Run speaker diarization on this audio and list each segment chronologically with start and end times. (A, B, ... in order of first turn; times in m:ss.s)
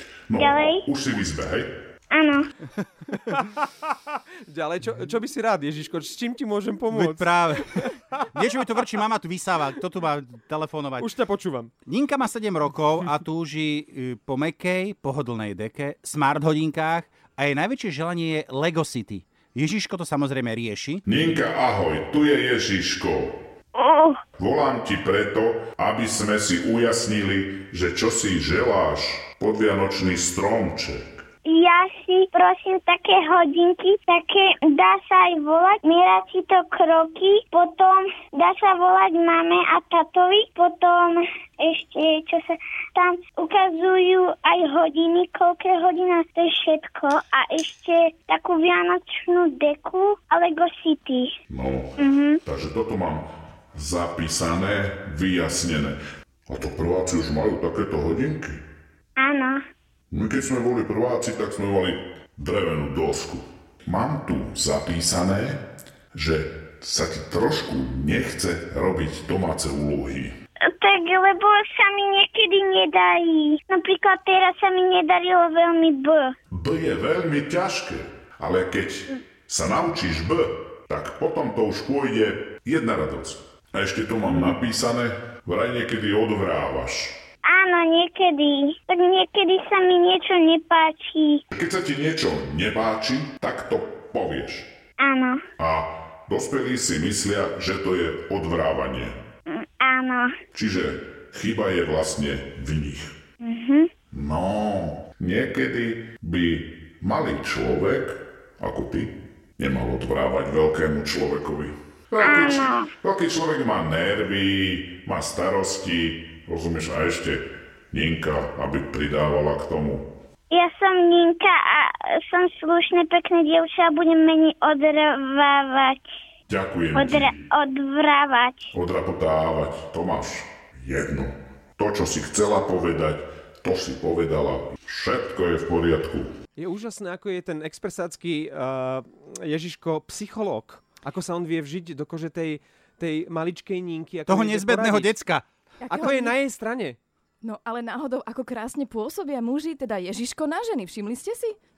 0:00.3-0:01.7 A
0:00.4-0:00.8 B
0:02.1-0:02.5 B
0:03.1-0:08.8 C
0:06.9-0:11.1 D
0:11.0-0:11.7 C
0:11.8-0:21.0 D
0:21.0-0:23.3 A
0:23.8-0:24.2 B
0:24.4-0:31.2 A
0:31.4-0:51.3 B
0:51.5-0:56.0 A
0:52.0-0:52.4 B
0:56.5-0:58.6 A
0:59.2-0:59.6 B
1:00.1-1:05.6 A
1:06.1-1:10.3 A
1:10.7-1:16.3 B
1:16.5-1:27.1 A
1:24.3-1:24.6 B
1:27.4-1:31.4 B
1:31.5-1:34.7 A
1:35.0-1:35.4 B
1:35.6-1:39.2 A
1:39.5-1:40.3 B
1:40.5-1:43.1 A
1:43.4-1:43.9 B
1:44.1-2:00.0 A
1:52.2-1:52.9 B
2:00.5-2:06.1 B
2:06.5-2:07.3 A
2:06.9-2:08.7 B
2:08.7-2:16.3 A
2:16.6-2:25.2 C
2:24.3-2:25.4 D
2:25.8-2:26.3 E
2:25.9-2:27.0 C
2:27.4-2:31.6 E